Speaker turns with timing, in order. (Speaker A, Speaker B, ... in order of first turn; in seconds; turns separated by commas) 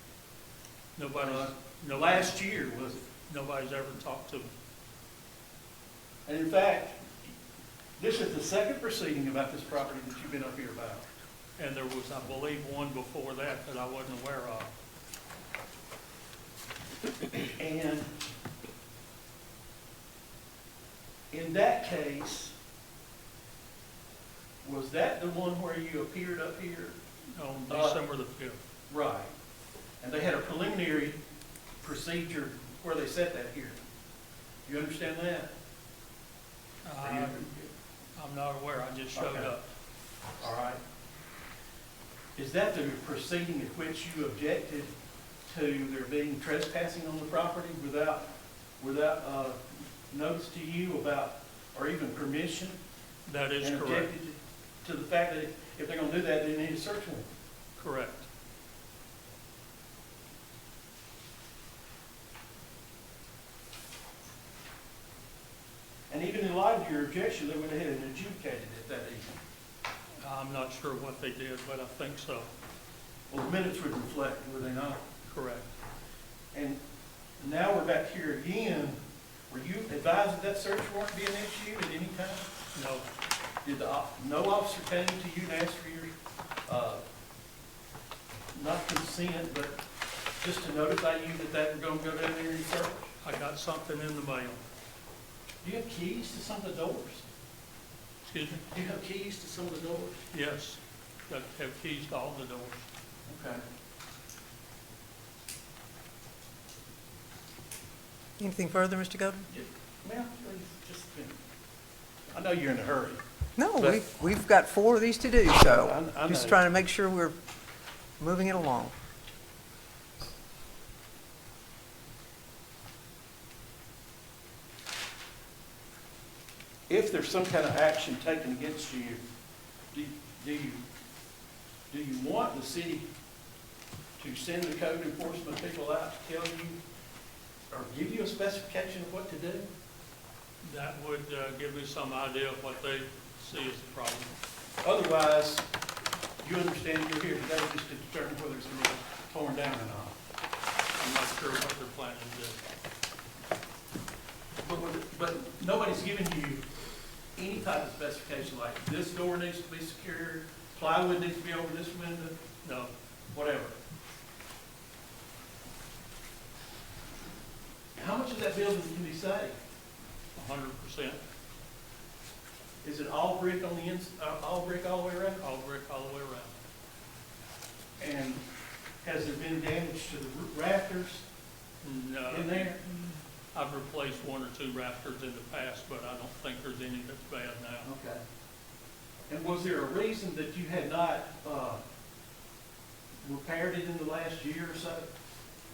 Speaker A: 1.0-2.4, Speaker B: 1.2-3.1, Speaker A: 3.3-4.5, Speaker B: 6.3-7.1, Speaker B: 8.0-11.1, Speaker A: 11.6-14.7, Speaker B: 17.4-18.1, Speaker B: 21.3-22.6, Speaker B: 24.6-27.0, Speaker A: 27.3-28.6, Speaker B: 27.7-28.0, Speaker B: 28.9-29.3, Speaker B: 30.0-31.2, Speaker B: 31.8-33.8, Speaker B: 34.7-35.5, Speaker A: 36.9-37.5, Speaker B: 37.0-37.7, Speaker A: 38.2-39.7, Speaker B: 39.1-39.5, Speaker B: 40.4-40.8, Speaker B: 42.4-44.9, Speaker B: 45.5-52.8, Speaker A: 53.3-54.1, Speaker B: 53.6-57.3, Speaker A: 57.8-58.3, Speaker B: 66.1-69.4, Speaker A: 70.2-72.5, Speaker B: 73.3-75.0, Speaker A: 75.3-75.7, Speaker B: 76.5-76.8, Speaker B: 77.4-82.5, Speaker A: 82.8-83.0, Speaker B: 83.6-86.1, Speaker B: 86.7-87.0, Speaker B: 88.5-89.8, Speaker B: 90.4-93.1, Speaker A: 93.2-94.6, Speaker B: 95.6-97.3, Speaker A: 98.3-98.6, Speaker B: 98.7-100.2, Speaker A: 100.3-102.8, Speaker B: 103.3-103.6, Speaker C: 108.4-109.5, Speaker B: 109.5-111.4, Speaker B: 112.3-113.2, Speaker C: 113.6-117.4, Speaker B: 115.6-116.6, Speaker C: 118.2-118.9, Speaker B: 126.9-129.2, Speaker B: 129.9-130.8, Speaker B: 131.9-133.1, Speaker B: 134.2-136.8, Speaker B: 137.7-139.7, Speaker A: 140.6-144.3, Speaker B: 144.8-145.7, Speaker B: 146.4-150.2, Speaker A: 151.0-152.6, Speaker B: 154.6-156.7, Speaker B: 157.4-162.4, Speaker A: 162.6-162.9, Speaker B: 163.3-163.7, Speaker B: 168.0-169.6, Speaker A: 170.4-171.2, Speaker B: 172.8-175.4, Speaker A: 175.4-176.5, Speaker B: 178.0-178.4, Speaker B: 179.0-181.3, Speaker A: 181.8-182.8, Speaker B: 182.3-182.8, Speaker A: 183.5-187.9, Speaker B: 187.8-188.2, Speaker B: 189.3-191.8, Speaker B: 193.2-195.1